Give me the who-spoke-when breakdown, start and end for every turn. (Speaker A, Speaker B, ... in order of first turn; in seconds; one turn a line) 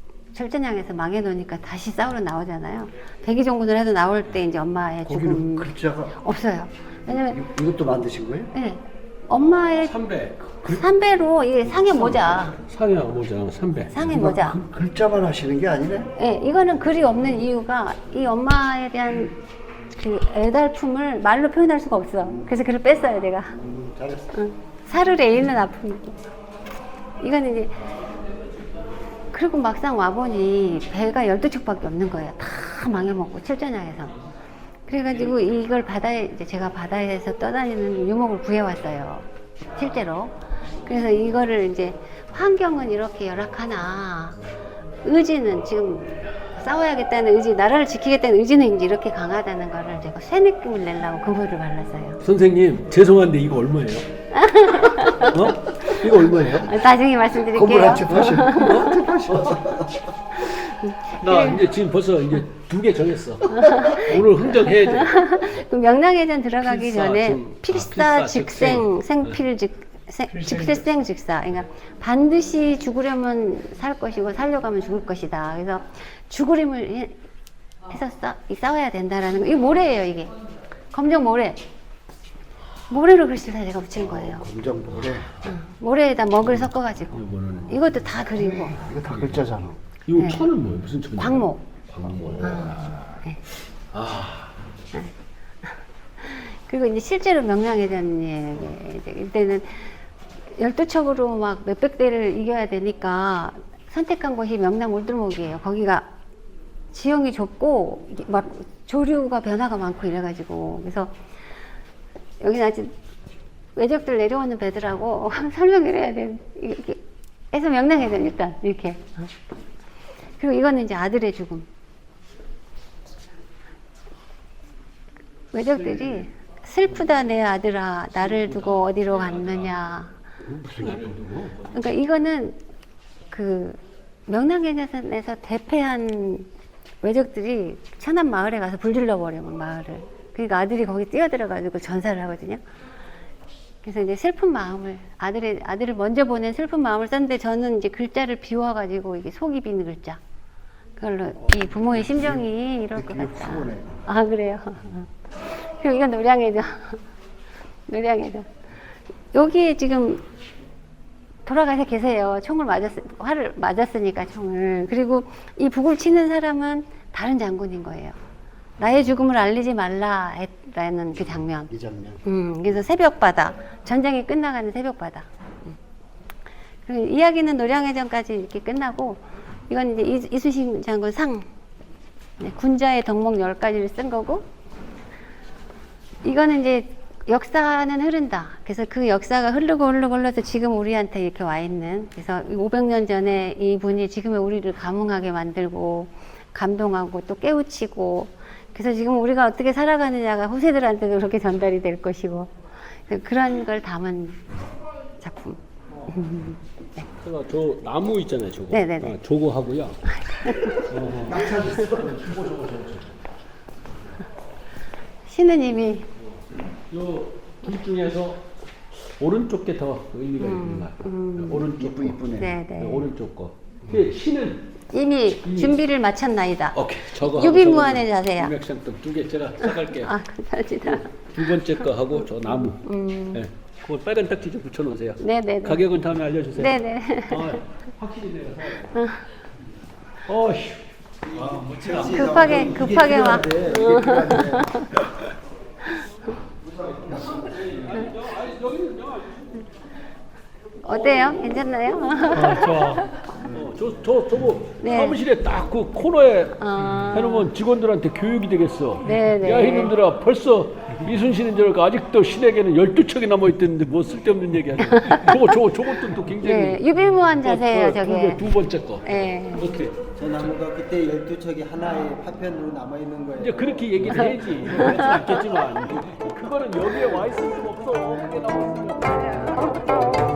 Speaker A: 0.3-7.5
Speaker B: 5.1-6.2
Speaker B: 7.2-8.5
Speaker A: 8.5-10.0
Speaker C: 9.8-10.8
Speaker A: 10.6-12.6
Speaker C: 11.8-14.2
Speaker A: 13.9-14.6
Speaker B: 14.1-16.1
Speaker A: 16.2-19.4
Speaker A: 20.0-23.6
Speaker B: 23.6-24.3
Speaker A: 24.3-26.2
Speaker A: 27.2-27.8
Speaker A: 29.3-34.2
Speaker A: 34.9-44.4
Speaker A: 45.0-52.2
Speaker C: 52.2-54.1
Speaker A: 54.3-59.1
Speaker C: 55.1-56.8
Speaker B: 57.5-59.9
Speaker C: 58.0-59.8
Speaker A: 60.4-61.6
Speaker C: 61.2-65.3
Speaker A: 63.5-77.2
Speaker C: 66.6-68.9
Speaker A: 77.9-80.3
Speaker A: 80.9-81.6
Speaker A: 82.9-84.5
Speaker B: 84.2-85.3
Speaker C: 84.9-85.5
Speaker A: 85.4-88.8
Speaker C: 86.5-87.9
Speaker B: 88.5-89.8
Speaker C: 88.9-89.4
Speaker C: 90.1-93.1
Speaker A: 90.2-90.5
Speaker A: 91.2-91.7
Speaker A: 92.4-93.4
Speaker C: 93.8-94.6
Speaker A: 95.6-100.0
Speaker A: 100.6-106.1
Speaker A: 106.9-111.2
Speaker A: 112.4-112.9
Speaker A: 113.8-117.0
Speaker A: 117.5-119.3
Speaker A: 120.4-121.7
Speaker A: 125.5-130.2
Speaker C: 128.3-129.7
Speaker C: 130.4-131.9
Speaker A: 131.7-132.6
Speaker A: 133.3-136.5
Speaker A: 137.0-142.6
Speaker A: 143.8-150.2
Speaker A: 151.0-157.0
Speaker B: 152.9-154.0
Speaker A: 157.9-158.5
Speaker A: 159.3-160.2
Speaker A: 161.4-168.2
Speaker A: 168.8-171.7
Speaker B: 171.7-172.2
Speaker A: 172.2-175.8
Speaker A: 176.8-181.5
Speaker A: 182.4-184.4
Speaker A: 186.2-204.4
Speaker A: 205.2-207.1
Speaker C: 207.2-210.2
Speaker A: 208.7-209.2
Speaker A: 210.1-210.9
Speaker C: 210.7-213.2
Speaker B: 211.3-212.1
Speaker A: 215.3-216.1
Speaker C: 216.9-224.7
Speaker A: 220.4-221.7
Speaker B: 221.8-222.3
Speaker A: 222.3-223.1
Speaker A: 224.9-228.5
Speaker C: 225.4-225.8
Speaker C: 226.7-230.1
Speaker A: 229.9-231.3
Speaker C: 231.1-238.9
Speaker A: 232.6-233.4
Speaker A: 235.2-235.8
Speaker A: 236.6-237.6
Speaker A: 238.9-239.3
Speaker C: 240.2-242.9
Speaker D: 241.3-244.8
Speaker A: 241.9-244.9
Speaker C: 246.7-249.7
Speaker A: 250.8-253.1
Speaker C: 252.3-270.5
Speaker A: 254.8-255.2
Speaker A: 256.6-257.5
Speaker A: 259.0-259.9
Speaker A: 264.9-265.5
Speaker A: 266.4-268.5
Speaker A: 269.1-269.8
Speaker D: 270.2-273.9
Speaker C: 273.4-279.3
Speaker A: 274.8-275.4
Speaker A: 279.0-280.0